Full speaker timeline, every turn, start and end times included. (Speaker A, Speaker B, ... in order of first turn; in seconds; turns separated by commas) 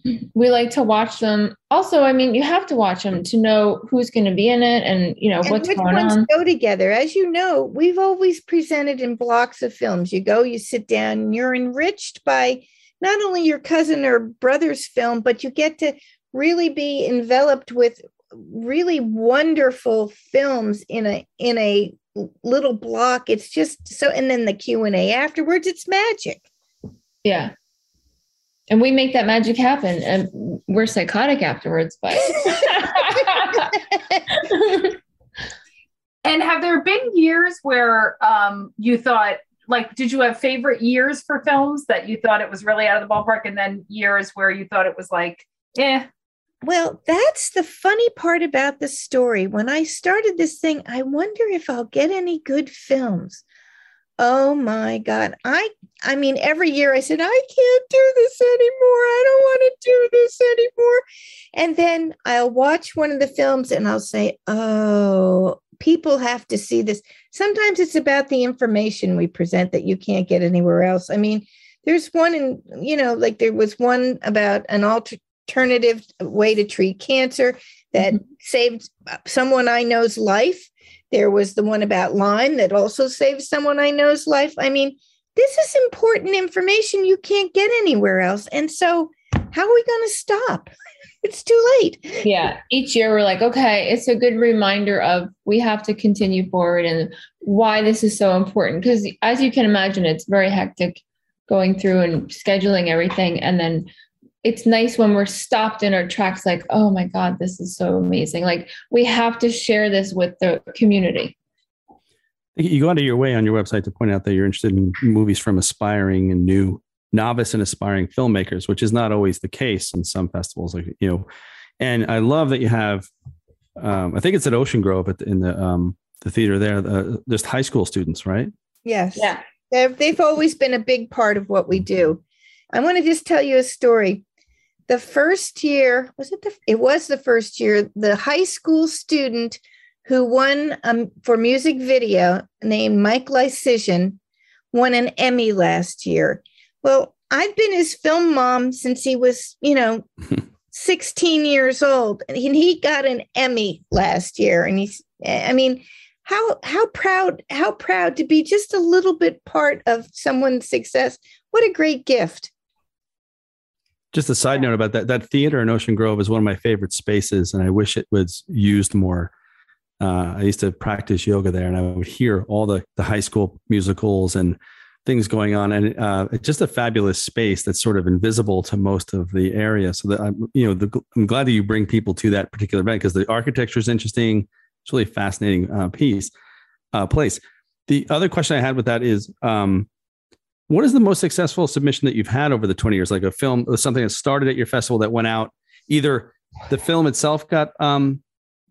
Speaker A: 0.3-6.3, Speaker B: 5.4-26.4, Speaker A: 27.2-27.5, Speaker A: 28.7-33.7, Speaker B: 32.4-32.7, Speaker A: 34.3-34.9, Speaker C: 36.2-46.0, Speaker B: 46.6-53.4, Speaker B: 54.2-61.0, Speaker B: 61.5-90.7, Speaker B: 91.2-92.3, Speaker A: 92.2-103.9, Speaker A: 104.4-111.3, Speaker D: 112.5-121.2, Speaker D: 121.8-123.1, Speaker D: 123.8-128.5, Speaker B: 128.8-134.2, Speaker A: 129.2-129.4, Speaker B: 134.9-144.2, Speaker B: 144.7-150.0, Speaker B: 150.7-162.5, Speaker D: 164.1-169.3, Speaker D: 170.0-186.3, Speaker D: 186.9-189.9, Speaker D: 190.7-198.2